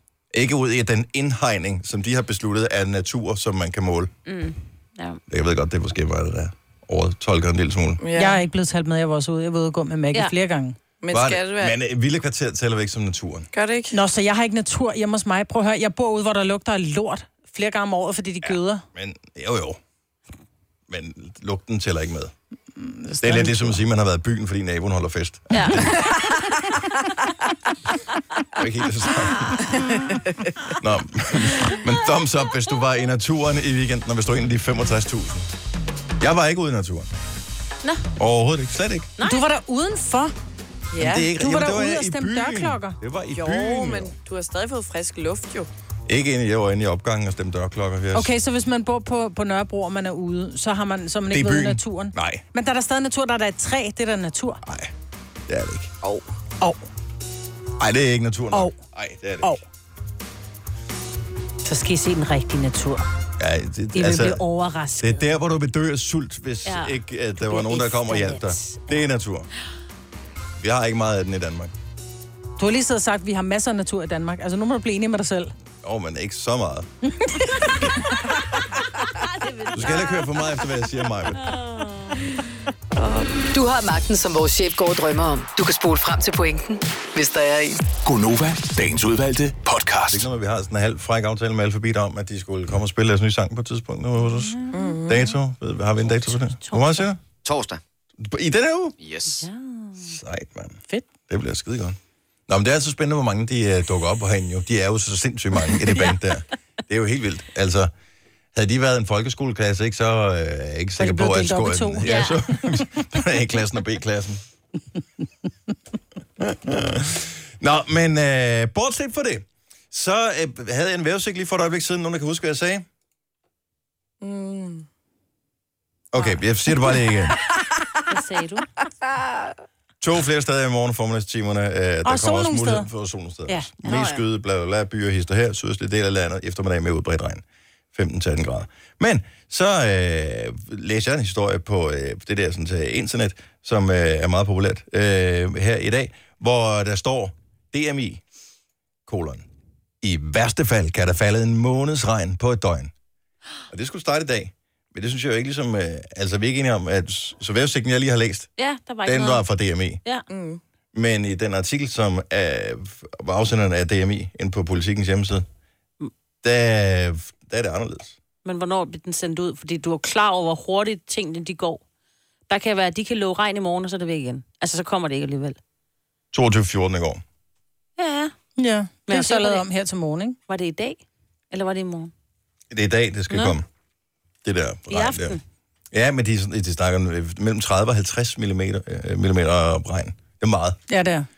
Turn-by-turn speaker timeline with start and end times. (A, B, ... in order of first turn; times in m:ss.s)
0:00.3-0:04.1 A
0:04.2-0:05.2 B
0:05.3-0:08.0 A
0:08.0-0:08.4 C
0:08.1-0:10.8 D
0:11.0-0:11.8 C
0:11.1-0:13.5 A
0:13.5-0:13.9 C
0:13.9-0:18.8 D
0:18.4-0:19.8 A
0:20.9-0:22.3 A
0:22.8-0:23.8 D
0:23.2-0:26.1 A
0:25.5-0:26.1 B
0:28.6-0:29.7 A
0:30.8-0:35.5 A
0:36.2-0:37.1 A
0:38.2-0:39.1 A
0:39.2-0:39.4 B
0:39.2-0:40.3 D
0:40.9-0:41.3 C
0:41.0-0:44.1 A
0:41.3-0:43.0 D
0:43.3-0:45.7 C
0:46.1-0:48.3 A
0:48.1-0:54.6 D
0:51.3-0:52.4 A
0:54.6-0:54.9 A
0:55.5-0:55.9 A
0:57.8-0:59.6 A
0:58.5-0:58.8 D
1:01.7-1:03.0 D
1:03.4-1:04.4 A
1:04.0-1:05.2 B
1:05.0-1:09.5 A
1:06.6-1:08.9 B
1:10.6-1:11.7 A
1:12.6-1:15.5 D
1:15.8-1:16.9 A
1:19.0-1:20.7 B
1:19.7-1:21.4 A
1:21.3-1:22.4 B
1:23.5-1:27.8 E
1:28.0-1:30.2 F
1:30.1-1:37.2 A
1:34.7-1:35.3 C
1:36.1-1:37.1 B
1:38.2-1:39.2 A
1:39.2-1:40.0 B
1:40.0-1:47.9 A
1:48.5-1:54.4 A
1:51.0-1:52.3 D
1:52.0-1:52.4 B
1:56.4-2:02.8 A
2:04.2-2:04.8 C
2:06.1-2:07.4 A
2:08.1-2:08.7 B
2:10.0-2:28.2 A
2:12.0-2:12.9 D
2:29.1-2:29.4 A
2:30.0-2:32.9 A
2:33.7-2:38.5 A
2:38.6-2:39.4 B
2:39.0-2:40.0 A
2:40.3-2:40.6 C
2:40.9-2:45.4 A
2:46.4-2:48.2 A
2:48.4-2:51.8 B
2:52.5-2:55.6 B
2:56.3-2:57.2 A
2:58.0-2:58.3 B
2:58.6-3:00.4 D
2:59.1-2:59.6 B
3:00.5-3:02.1 B
3:02.7-3:03.6 A
3:03.3-3:03.6 B
3:04.4-3:05.4 A
3:04.9-3:05.4 B
3:05.9-3:10.8 A
3:10.9-3:11.2 D